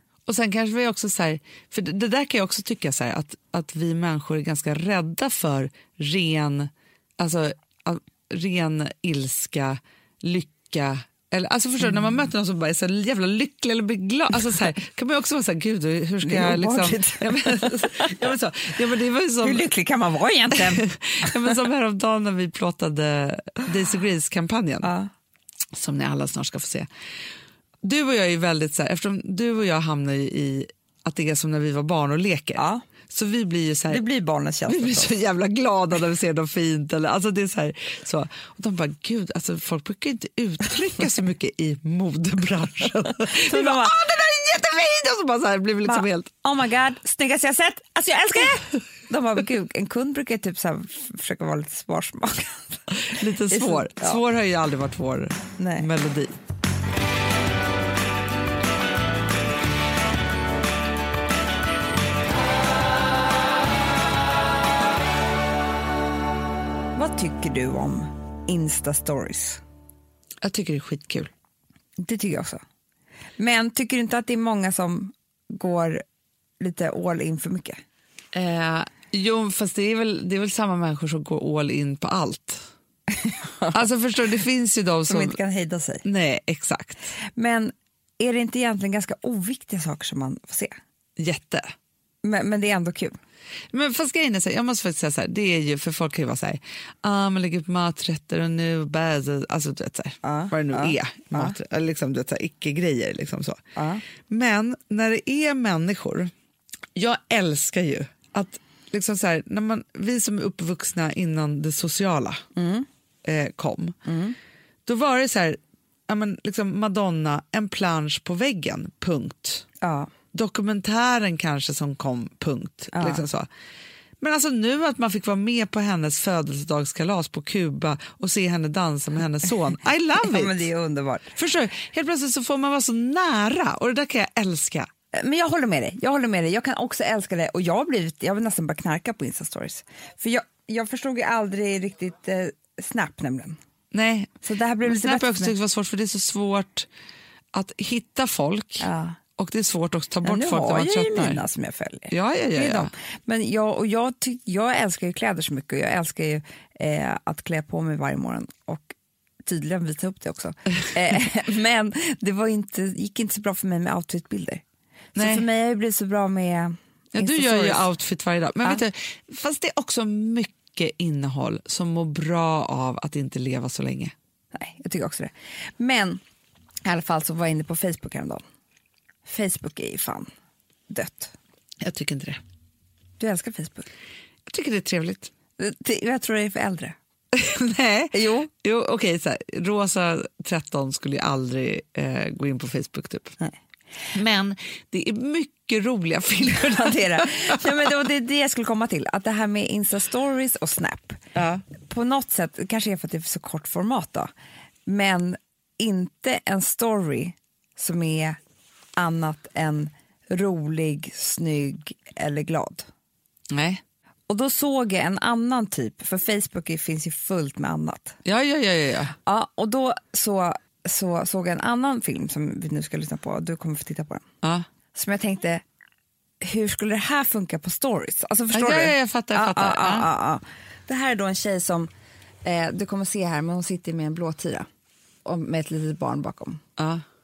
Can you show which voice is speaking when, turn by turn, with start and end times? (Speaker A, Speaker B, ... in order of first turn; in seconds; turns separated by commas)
Speaker A: 0.3-19.6, Speaker B: 16.2-18.3, Speaker B: 19.4-21.5, Speaker A: 20.5-24.9, Speaker B: 24.8-25.1, Speaker A: 25.7-26.9, Speaker A: 27.8-34.0, Speaker B: 32.6-32.8, Speaker B: 33.9-35.1, Speaker A: 34.7-46.3, Speaker B: 43.3-43.9, Speaker B: 45.8-52.8, Speaker A: 52.9-56.4, Speaker B: 53.5-54.2, Speaker B: 55.6-55.9, Speaker B: 66.9-69.6, Speaker A: 70.4-71.3, Speaker B: 72.0-72.6, Speaker B: 73.4-76.0, Speaker B: 76.6-77.8, Speaker A: 78.3-82.7, Speaker B: 83.1-83.8, Speaker A: 83.7-85.4, Speaker B: 85.1-86.0, Speaker A: 86.0-87.1, Speaker B: 87.3-90.8, Speaker A: 91.2-91.7, Speaker B: 92.2-93.2, Speaker A: 93.7-103.6, Speaker B: 100.2-101.5, Speaker B: 103.8-104.0, Speaker A: 104.2-106.3, Speaker A: 106.9-112.4, Speaker B: 112.5-112.9, Speaker A: 113.2-114.0, Speaker B: 114.0-114.4, Speaker A: 114.8-119.7, Speaker B: 119.8-120.1, Speaker A: 120.3-123.5, Speaker B: 122.9-123.2, Speaker A: 124.2-130.6, Speaker B: 130.2-131.3, Speaker A: 131.3-134.9, Speaker B: 135.1-143.6, Speaker A: 143.9-146.9, Speaker B: 144.4-145.5, Speaker A: 147.5-151.4, Speaker B: 148.8-149.2, Speaker B: 150.2-164.6, Speaker A: 152.1-152.9, Speaker A: 165.1-165.4, Speaker B: 165.1-167.8, Speaker A: 167.1-174.1, Speaker B: 174.5-176.2, Speaker B: 176.8-178.4, Speaker B: 179.2-180.3, Speaker B: 180.9-181.3, Speaker A: 181.8-182.4, Speaker B: 183.2-183.9, Speaker A: 184.5-185.3, Speaker B: 185.6-186.9, Speaker A: 187.3-193.4, Speaker B: 188.1-188.5, Speaker A: 194.1-197.8, Speaker B: 196.4-201.2, Speaker A: 201.3-201.6, Speaker B: 201.8-204.3, Speaker B: 204.8-208.4, Speaker B: 209.0-212.9, Speaker A: 213.5-213.8, Speaker B: 214.3-218.2, Speaker A: 218.2-219.1, Speaker B: 219.2-224.2, Speaker B: 224.9-225.6, Speaker B: 226.4-231.9, Speaker A: 228.5-230.1, Speaker B: 232.4-234.7, Speaker B: 235.2-236.6, Speaker A: 236.8-237.0